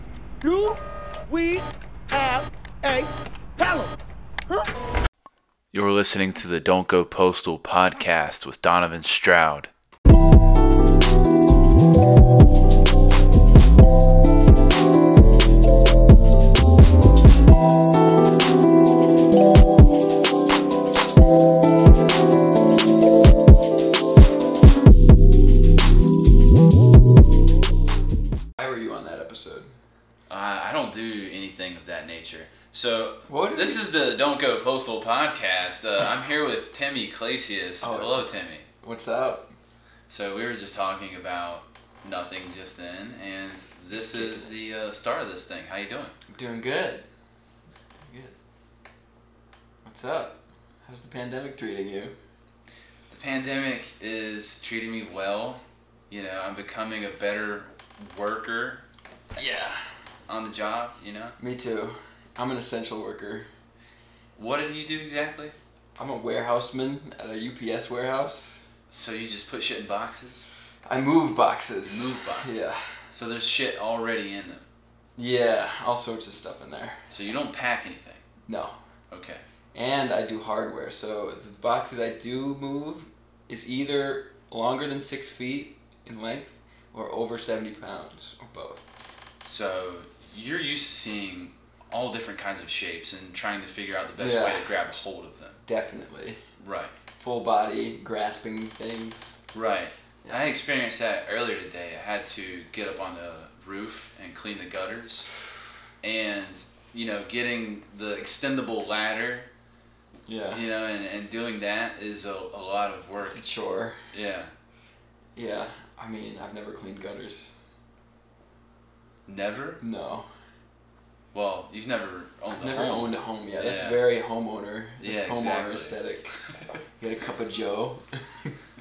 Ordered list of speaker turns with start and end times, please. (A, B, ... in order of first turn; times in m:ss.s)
0:00.4-0:03.9 A
0:05.7-0:09.7 B
0:28.6-0:29.7 C
0:30.3-0:38.6 B
0:33.3-0:33.9 C
0:37.8-0:39.5 C
0:40.1-0:46.1 B
0:43.9-0:44.5 C
0:46.3-0:47.0 C
0:48.0-0:48.3 C
0:49.8-0:52.1 C
0:53.1-0:58.8 B
0:59.4-0:59.8 C
1:00.3-1:01.3 B
1:01.4-1:03.5 C
1:04.4-1:05.6 B
1:06.0-1:08.6 C
1:08.9-1:10.5 B
1:10.8-1:12.8 C
1:11.8-1:14.6 B
1:15.2-1:17.1 C
1:17.1-1:18.2 B
1:18.5-1:18.8 C
1:19.1-1:19.4 B
1:19.7-1:28.9 C
1:29.4-1:35.6 B
1:34.2-1:34.7 C
1:35.6-1:36.4 C
1:36.6-1:36.9 B
1:37.1-1:39.4 C
1:39.5-1:45.3 B
1:40.2-1:40.5 C
1:46.0-1:49.5 B
1:50.3-1:50.6 C
1:50.5-1:53.4 B
1:53.2-1:54.0 C
1:54.1-1:54.5 B
1:55.4-1:57.6 C
1:59.2-1:59.8 B
1:59.8-2:00.3 C
2:01.3-2:04.1 B
2:02.5-2:06.4 C
2:05.0-2:06.7 B
2:07.0-2:08.6 C